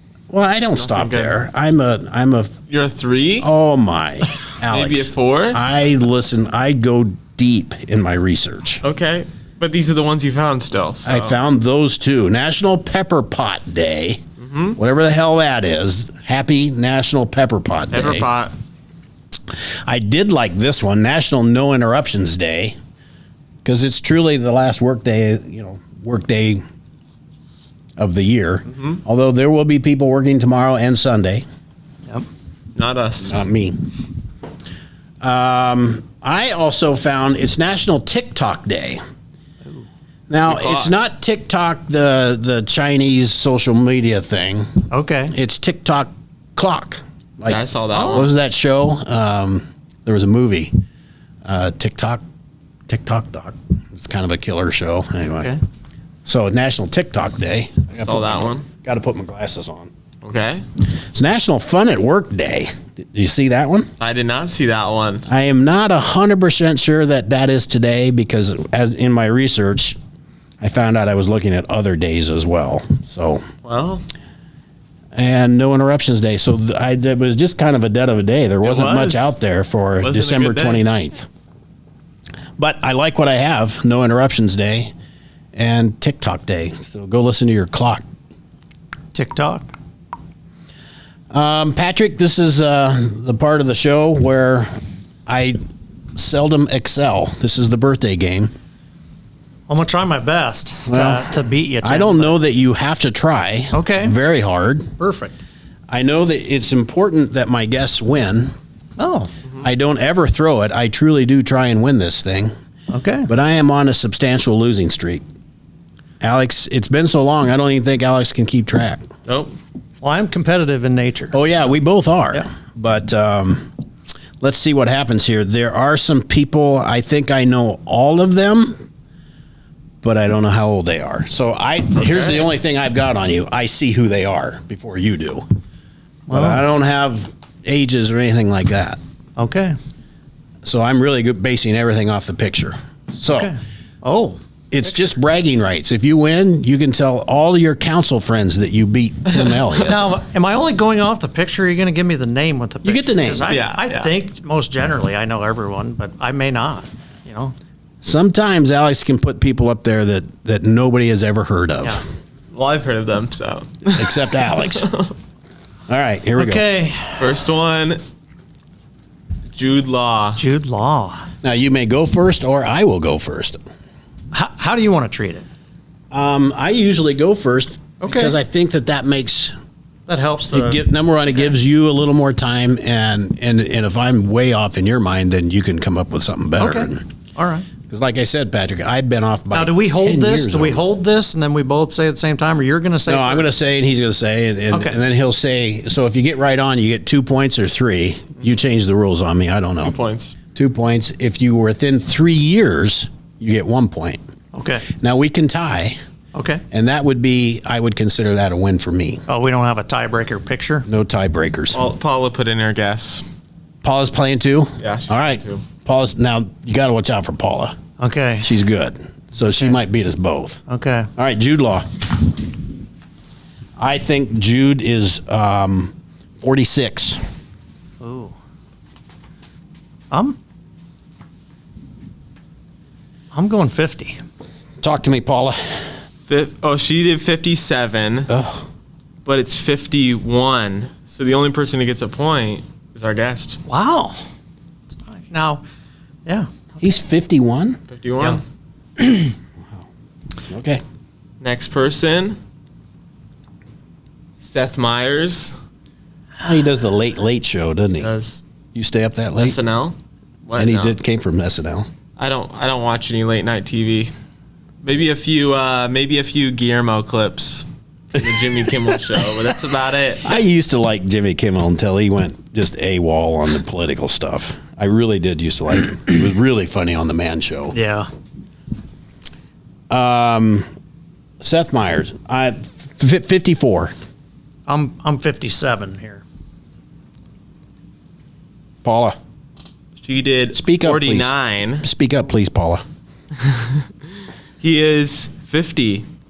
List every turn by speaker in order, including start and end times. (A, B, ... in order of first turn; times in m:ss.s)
0:00.3-0:02.5 A
0:00.7-0:01.4 B
0:02.7-0:03.5 B
0:03.4-0:08.8 A
0:04.7-0:05.6 B
0:08.8-0:11.4 B
0:11.0-0:14.2 A
0:14.4-0:14.8 B
0:14.8-0:18.2 A
0:17.9-0:18.5 B
0:19.8-0:22.8 A
0:23.6-0:26.6 A
0:28.0-0:31.4 A
0:28.7-0:29.0 B
0:32.7-0:33.4 B
0:33.2-0:33.8 A
0:35.2-0:39.0 A
0:40.3-0:44.7 A
0:40.4-0:40.9 B
0:44.9-0:45.3 C
0:45.3-0:50.7 A
0:47.4-0:48.3 B
0:47.9-0:48.2 C
0:51.4-0:52.2 A
0:52.9-0:55.6 A
0:56.2-0:59.9 A
0:57.9-0:58.6 B
1:00.2-1:00.6 B
1:01.1-1:03.9 A
1:04.0-1:05.2 B
1:05.3-1:10.0 A
1:10.6-1:13.4 A
1:13.6-1:14.0 B
1:15.1-1:21.3 A
1:18.6-1:19.3 B
1:20.0-1:20.8 B
1:22.6-1:24.9 A
1:25.5-1:28.0 A
1:29.1-1:29.7 C
1:31.3-1:34.7 A
1:35.3-1:35.6 A
1:36.2-1:38.5 A
1:39.7-1:42.4 C
1:40.9-1:41.3 A
1:41.8-1:44.9 A
1:43.7-1:44.2 C
1:45.0-1:45.4 C
1:45.9-1:48.5 A
1:49.0-1:49.3 C
1:49.6-1:52.5 A
1:52.9-1:53.3 C
1:53.3-1:55.2 A
1:56.2-1:59.0 A
1:59.2-1:59.5 B
2:00.0-2:01.4 C
2:01.3-2:03.7 A
2:04.4-2:08.8 A
2:10.0-2:15.4 A
2:12.0-2:12.5 B
2:16.3-2:16.6 C
2:16.3-2:19.0 A
2:19.4-2:19.7 C
2:20.6-2:23.5 A
2:23.3-2:24.4 C
2:24.7-2:30.1 A
2:29.8-2:37.5 C
2:32.8-2:33.5 A
2:33.4-2:34.1 B
2:38.0-2:42.0 A
2:42.5-2:45.1 B
2:43.9-2:44.9 A
2:45.9-2:46.6 A
2:46.4-2:47.3 C
2:47.2-2:48.0 B
2:49.5-2:50.4 B
2:50.4-2:51.3 C
2:51.4-2:53.6 A
2:54.3-2:55.4 C
2:56.1-2:59.5 A
2:58.0-2:58.4 C
3:00.1-3:00.8 C
3:00.5-3:07.1 A
3:06.6-3:07.7 C
3:07.9-3:10.8 A
3:09.5-3:13.5 C
3:13.1-3:20.0 A
3:14.7-3:15.0 C
3:19.8-3:20.3 B
3:20.5-3:24.2 A
3:24.5-3:24.9 C
3:24.9-3:26.0 A
3:26.3-3:26.6 C
3:26.7-3:29.2 A
3:29.3-3:30.8 C
3:30.8-3:31.8 A
3:31.7-3:33.2 B
3:33.8-3:37.7 A
3:34.8-3:35.6 B
3:38.0-3:38.5 C
3:38.4-3:40.6 A
3:39.4-3:39.7 C
3:40.7-3:41.1 C
3:41.2-3:42.1 A
3:43.8-3:47.2 A
3:48.0-3:48.3 C
3:50.1-3:50.4 C
3:53.3-3:54.2 C
3:54.8-3:55.6 A
3:56.3-3:58.3 B
3:58.3-3:58.6 A
3:59.2-4:03.6 B
4:03.7-4:04.2 C
4:05.1-4:05.6 C
4:06.2-4:06.6 C
4:06.8-4:07.8 A
4:07.9-4:08.4 B
4:09.0-4:09.3 C
4:10.5-4:10.8 A
4:11.4-4:12.4 B
4:14.4-4:15.5 B
4:16.4-4:18.1 A
4:18.0-4:18.4 B
4:18.7-4:19.6 A
4:19.4-4:21.0 B
4:20.6-4:21.9 A
4:22.2-4:24.1 B
4:24.8-4:30.3 B
4:30.2-4:37.7 A
4:37.7-4:38.1 C
4:39.9-4:40.7 A
4:41.4-4:43.9 A
4:44.7-4:46.2 C
4:48.8-4:49.2 A
4:50.0-4:51.8 B
4:50.5-4:52.8 A
4:53.4-4:53.8 B
4:54.6-4:56.0 B